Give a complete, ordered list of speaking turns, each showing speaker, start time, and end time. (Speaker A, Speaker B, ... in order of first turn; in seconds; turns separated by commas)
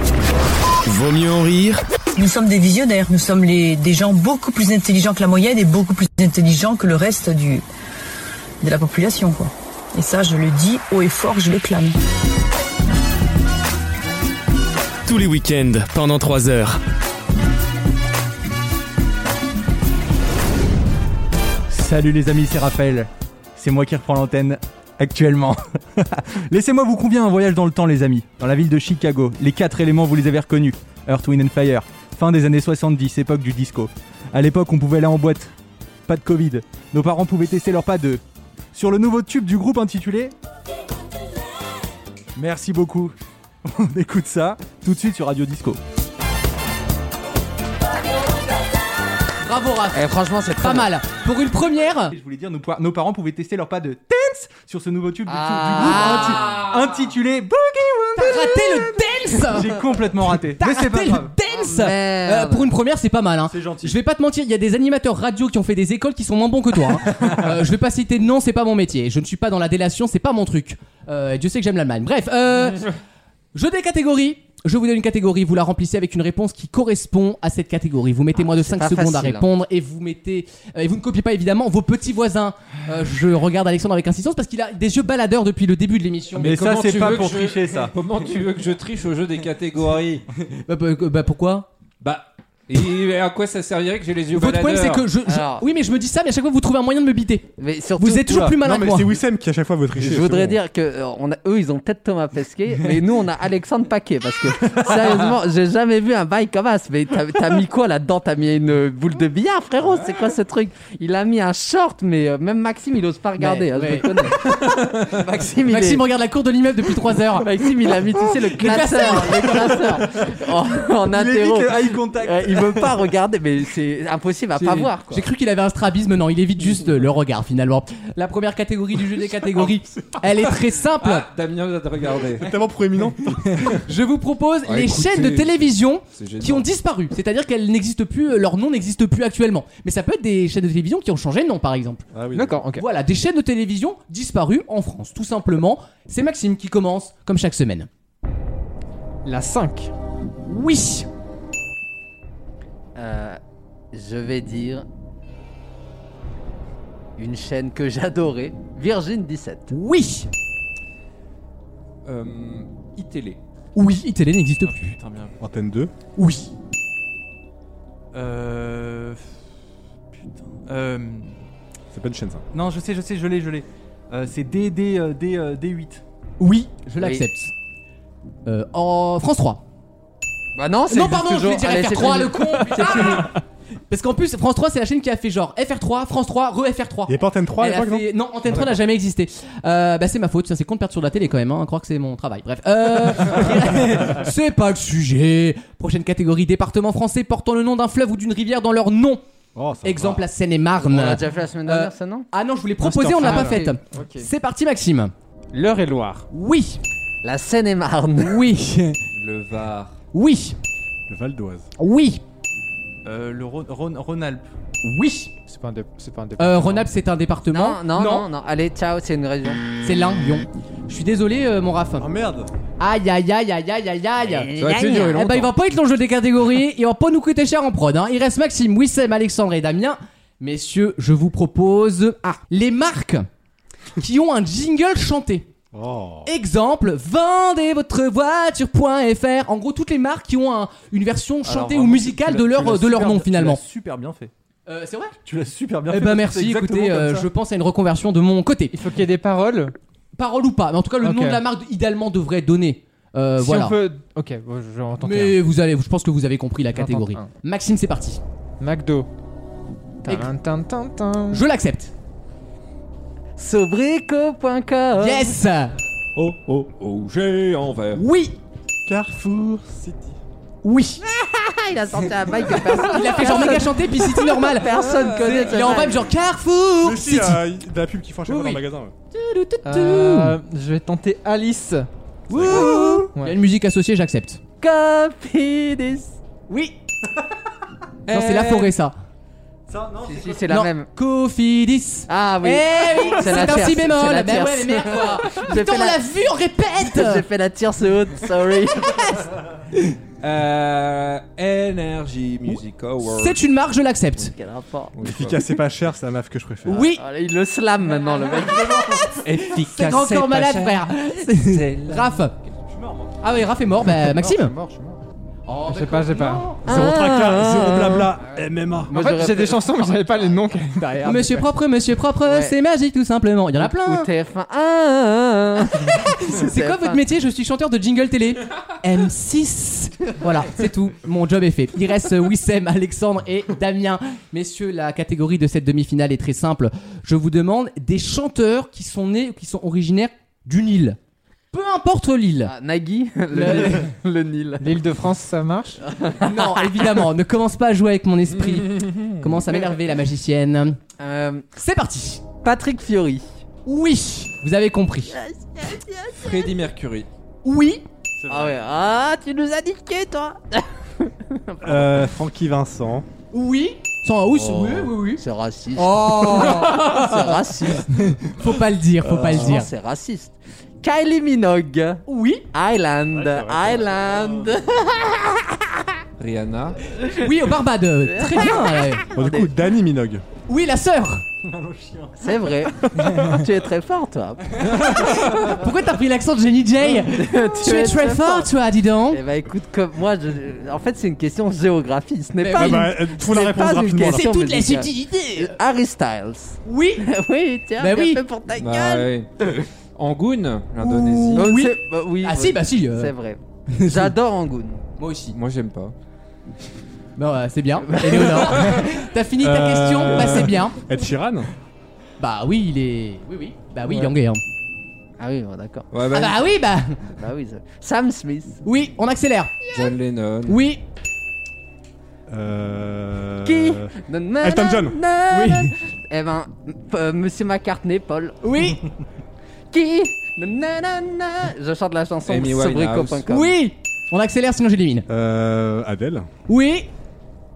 Speaker A: 0.9-1.8, Speaker B: 2.1-7.7, Speaker B: 8.6-12.0, Speaker A: 15.1-16.8, Speaker C: 21.7-35.5, Speaker C: 36.1-38.2, Speaker C: 38.7-40.3, Speaker C: 42.4-43.1, Speaker C: 43.6-45.8, Speaker D: 49.4-50.0, Speaker E: 49.9-50.9, Speaker D: 50.6-52.1, Speaker C: 52.1-58.9, Speaker E: 55.3-56.7, Speaker D: 55.8-56.5, Speaker D: 58.2-59.8, Speaker C: 59.5-61.3, Speaker D: 60.4-72.9, Speaker E: 61.5-62.7, Speaker C: 63.5-64.0, Speaker D: 73.5-86.5, Speaker E: 78.4-79.5, Speaker C: 86.3-87.9, Speaker F: 86.4-90.2, Speaker D: 90.7-91.7, Speaker F: 92.0-95.1, Speaker D: 94.3-99.1, Speaker E: 95.3-95.7, Speaker E: 97.6-98.6, Speaker G: 98.6-100.6, Speaker E: 100.0-116.1, Speaker D: 113.4-114.1, Speaker D: 115.7-117.5, Speaker E: 117.2-125.3, Speaker D: 118.5-120.0, Speaker C: 119.1-120.4, Speaker C: 121.0-123.1, Speaker D: 124.6-131.3, Speaker F: 131.0-132.5, Speaker G: 132.4-133.8, Speaker D: 133.8-142.1, Speaker F: 134.7-136.7, Speaker G: 142.1-142.6, Speaker H: 142.3-142.8, Speaker D: 142.8-147.9, Speaker H: 149.2-149.9, Speaker D: 150.5-151.1, Speaker E: 153.0-153.4, Speaker E: 153.9-154.8, Speaker E: 157.2-159.7, Speaker D: 159.7-160.3, Speaker F: 162.1-163.4, Speaker D: 163.8-165.0, Speaker C: 164.7-165.3, Speaker G: 165.4-165.9, Speaker D: 166.2-166.5, Speaker C: 168.1-169.3, Speaker C: 170.5-171.4, Speaker G: 171.9-172.4, Speaker C: 172.5-176.0, Speaker D: 176.4-177.5, Speaker E: 177.0-177.2, Speaker D: 178.5-179.6, Speaker E: 180.6-183.4, Speaker D: 180.9-183.3, Speaker D: 183.9-199.2, Speaker G: 187.1-188.7, Speaker G: 199.6-200.2, Speaker D: 199.8-205.1, Speaker E: 200.8-202.3, Speaker G: 202.8-203.6, Speaker E: 203.2-204.2, Speaker H: 205.5-206.3, Speaker D: 206.3-206.8, Speaker E: 207.2-208.4, Speaker D: 208.2-209.0, Speaker F: 209.1-210.0, Speaker D: 210.1-210.6, Speaker G: 211.1-211.7, Speaker D: 211.8-212.2, Speaker C: 213.1-214.5, Speaker D: 214.8-215.3, Speaker H: 215.5-216.9, Speaker D: 216.4-218.3, Speaker E: 217.5-219.6, Speaker D: 219.8-222.1, Speaker G: 222.0-222.5, Speaker D: 222.8-233.3, Speaker E: 224.2-225.2, Speaker F: 224.6-225.5, Speaker D: 234.0-235.5, Speaker G: 235.7-236.3, Speaker D: 236.3-243.6, Speaker C: 241.4-244.3, Speaker D: 244.7-245.2, Speaker C: 245.2-247.3, Speaker D: 245.9-248.8, Speaker H: 248.7-249.7, Speaker D: 250.2-253.8, Speaker H: 251.0-251.4, Speaker H: 253.4-255.4, Speaker D: 255.0-258.2, Speaker H: 256.7-257.3, Speaker H: 258.6-259.1, Speaker H: 260.0-261.4, Speaker D: 261.3-261.9, Speaker E: 263.4-265.4, Speaker D: 265.0-265.7, Speaker F: 266.2-268.0, Speaker D: 268.0-268.4, Speaker G: 268.9-270.2, Speaker D: 270.6-271.0, Speaker E: 271.1-276.1, Speaker D: 272.9-277.4, Speaker F: 274.8-275.8, Speaker G: 276.8-278.9, Speaker D: 278.3-278.6, Speaker D: 279.1-280.3, Speaker H: 279.6-281.9, Speaker D: 282.3-284.4, Speaker E: 282.4-283.1, Speaker E: 284.6-286.1, Speaker D: 286.5-286.8, Speaker F: 288.1-288.7, Speaker D: 288.1-288.9, Speaker C: 289.7-290.4, Speaker E: 290.0-290.9, Speaker D: 290.5-297.2, Speaker E: 292.1-296.0, Speaker E: 296.8-299.3, Speaker F: 300.2-303.4, Speaker D: 302.5-304.3, Speaker E: 304.2-304.9, Speaker F: 304.9-305.4, Speaker G: 305.0-306.9, Speaker D: 306.7-307.0, Speaker E: 306.8-309.2, Speaker C: 308.4-309.2, Speaker F: 309.2-312.3, Speaker D: 309.4-312.4, Speaker C: 312.7-313.2, Speaker D: 313.2-314.5, Speaker C: 314.6-315.0, Speaker D: 315.5-316.6, Speaker H: 315.7-316.5, Speaker E: 316.6-318.1, Speaker G: 316.7-318.9, Speaker E: 318.9-320.3, Speaker H: 318.9-321.5, Speaker D: 321.0-324.1, Speaker E: 322.2-322.6, Speaker E: 323.6-327.0, Speaker D: 326.0-341.0, Speaker D: 341.5-342.5, Speaker E: 342.4-344.8, Speaker D: 343.3-343.8, Speaker H: 344.6-345.8, Speaker E: 345.9-347.0, Speaker D: 346.2-350.8, Speaker F: 348.4-349.2, Speaker E: 351.0-351.5, Speaker D: 351.6-352.2, Speaker E: 352.4-353.3, Speaker D: 353.7-355.2, Speaker E: 355.1-356.6, Speaker F: 356.1-357.1, Speaker D: 357.4-357.8, Speaker C: 358.2-358.6, Speaker E: 358.3-362.1, Speaker G: 361.6-363.1, Speaker D: 363.3-365.2, Speaker E: 364.3-367.9, Speaker D: 365.8-367.4, Speaker D: 367.9-369.7, Speaker E: 369.1-375.6, Speaker D: 372.1-372.4, Speaker C: 373.2-374.3, Speaker F: 376.2-376.8, Speaker D: 377.1-379.1, Speaker E: 378.1-379.5, Speaker G: 379.1-380.2, Speaker D: 380.5-381.2, Speaker C: 381.4-382.2, Speaker E: 382.2-384.6, Speaker D: 384.6-389.2, Speaker E: 386.9-388.5, Speaker E: 389.1-399.6, Speaker D: 392.4-395.5, Speaker G: 392.6-394.4, Speaker D: 396.6-397.1, Speaker D: 397.8-398.2, Speaker F: 398.6-399.4, Speaker F: 400.0-401.5, Speaker D: 400.8-403.1, Speaker E: 401.4-404.8, Speaker D: 403.7-404.1, Speaker D: 405.0-405.4, Speaker F: 405.3-405.9, Speaker D: 407.2-410.8, Speaker E: 407.8-408.8, Speaker G: 409.4-411.5, Speaker D: 412.2-414.4, Speaker E: 415.2-415.9, Speaker F: 415.9-416.4, Speaker D: 416.1-417.0, Speaker E: 417.1-418.6, Speaker D: 418.6-419.6, Speaker F: 419.7-420.6, Speaker D: 420.5-420.8, Speaker G: 422.3-425.0, Speaker E: 423.4-428.4, Speaker D: 425.3-425.7, Speaker D: 428.4-428.8, Speaker E: 429.7-433.6, Speaker F: 432.3-433.2, Speaker D: 433.3-435.1, Speaker G: 435.1-436.3, Speaker D: 436.5-436.9